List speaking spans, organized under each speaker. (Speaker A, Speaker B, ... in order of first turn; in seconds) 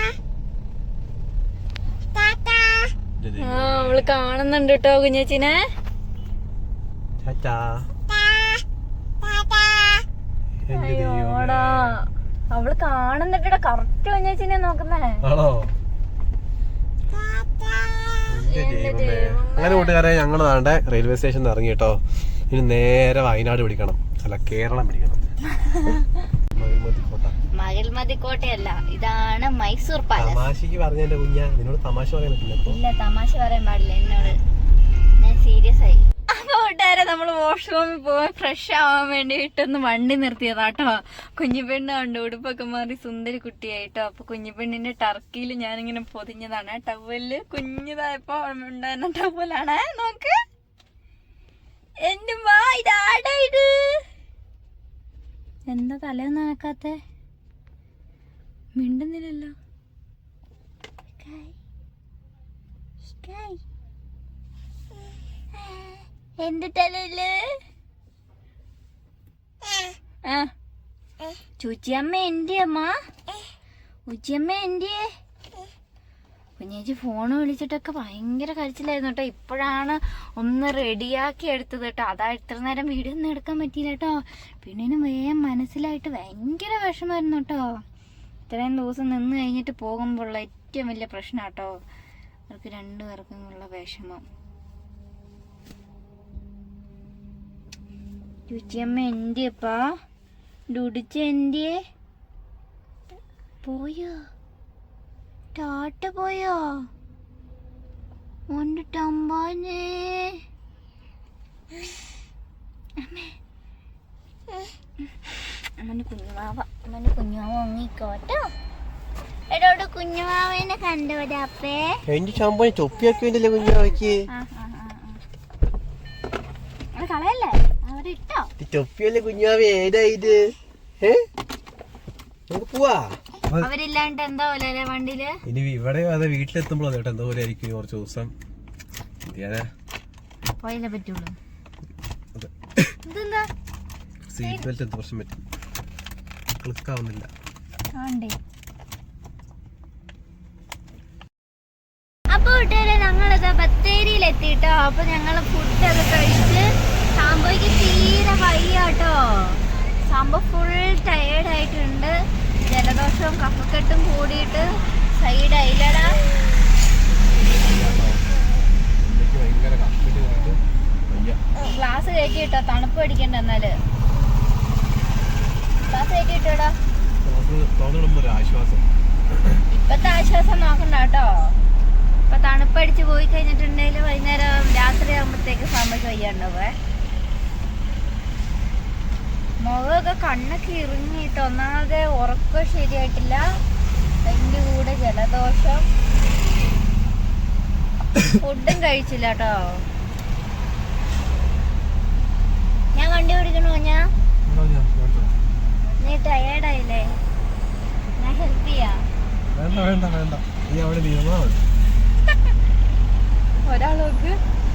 Speaker A: 3.2-4.1, 7.2-7.9, 10.7-11.9, 15.2-15.7, 18.3-25.2, 26.5-27.3, 30.1-32.8, 122.1-124.2, 128.6-131.2, 132.5-133.7, 135.4-138.3, 139.2-139.7, 142.3-142.9, 144.3-145.4, 146.6-147.3, 167.3-168.2, 169.0-171.4, 177.2-179.6, 204.4-205.3, 209.5-211.7
Speaker B: 3.4-5.6, 10.7-15.2, 18.4-20.0, 27.5-30.5, 32.6-34.4, 35.2-50.4, 52.0-54.0, 55.7-57.0, 58.8-59.5, 61.2-61.5, 63.2-63.6, 65.7-67.4, 70.2-70.5, 71.6-72.9, 74.1-75.0, 76.6-87.6, 88.5-91.8, 92.5-94.2, 98.5-99.8, 100.7-101.8, 103.6-104.2, 105.5-106.8, 108.5-110.4, 113.0-113.3, 115.8-118.5, 119.5-122.0, 124.3-125.2, 127.0-128.5, 133.6-135.4, 140.6-141.3, 143.0-143.5, 147.9-148.3, 152.3-156.6, 157.2-166.2, 171.6-173.8, 175.8-176.8, 179.7-181.5, 182.3-186.7, 189.6-193.6, 194.2-195.9, 198.3-199.8, 202.9-204.1, 206.0-207.2, 208.2-209.0, 213.6-214.4